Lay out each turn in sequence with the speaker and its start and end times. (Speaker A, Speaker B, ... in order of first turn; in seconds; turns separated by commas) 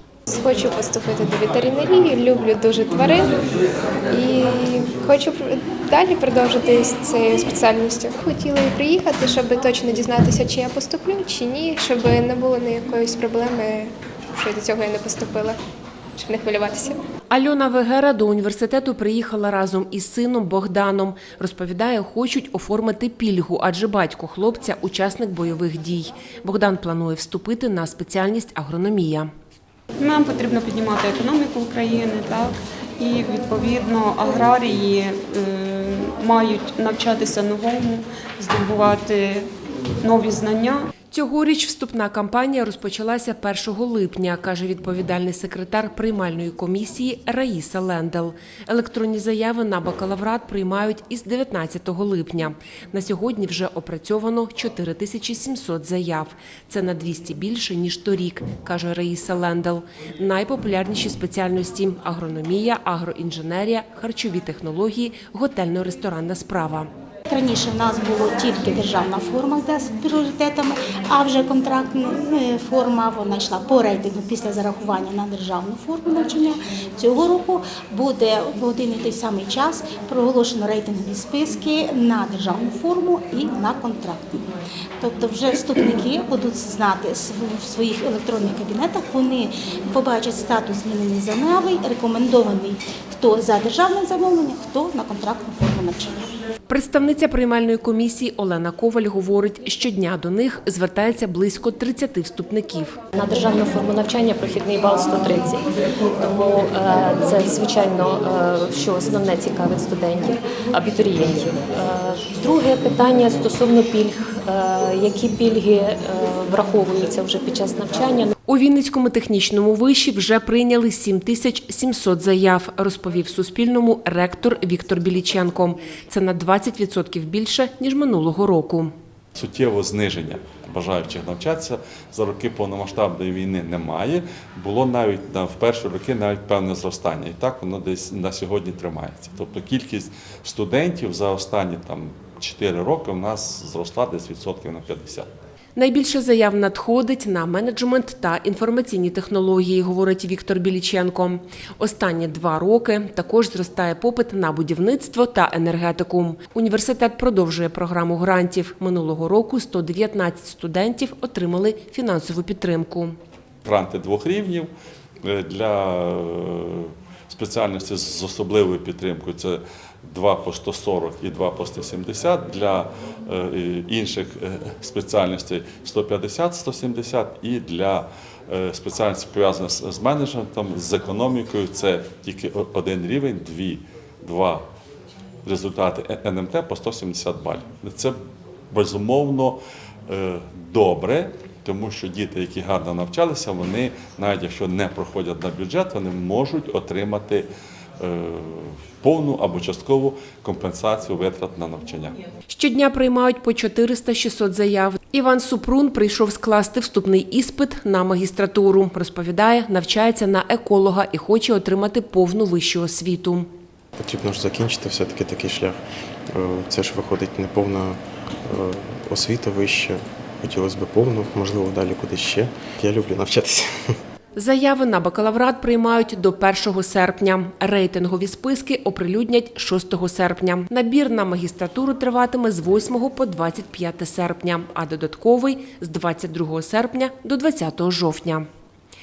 Speaker A: 0.3-3.4, Speaker A: 4.1-15.6, Speaker A: 16.2-17.0, Speaker B: 17.3-29.3, Speaker C: 30.0-39.5, Speaker C: 40.0-40.9, Speaker B: 41.1-66.9, Speaker D: 67.3-84.5, Speaker D: 85.0-96.2, Speaker B: 96.7-103.0, Speaker E: 103.2-105.6, Speaker E: 106.2-118.3, Speaker B: 118.5-128.9, Speaker F: 129.3-145.3, Speaker B: 145.8-163.2, Speaker F: 163.6-164.7, Speaker F: 165.2-184.7, Speaker F: 185.4-188.2, Speaker F: 188.7-197.5, Speaker F: 198.0-202.2, Speaker B: 202.5-213.5, Speaker G: 214.0-224.0, Speaker B: 224.4-238.5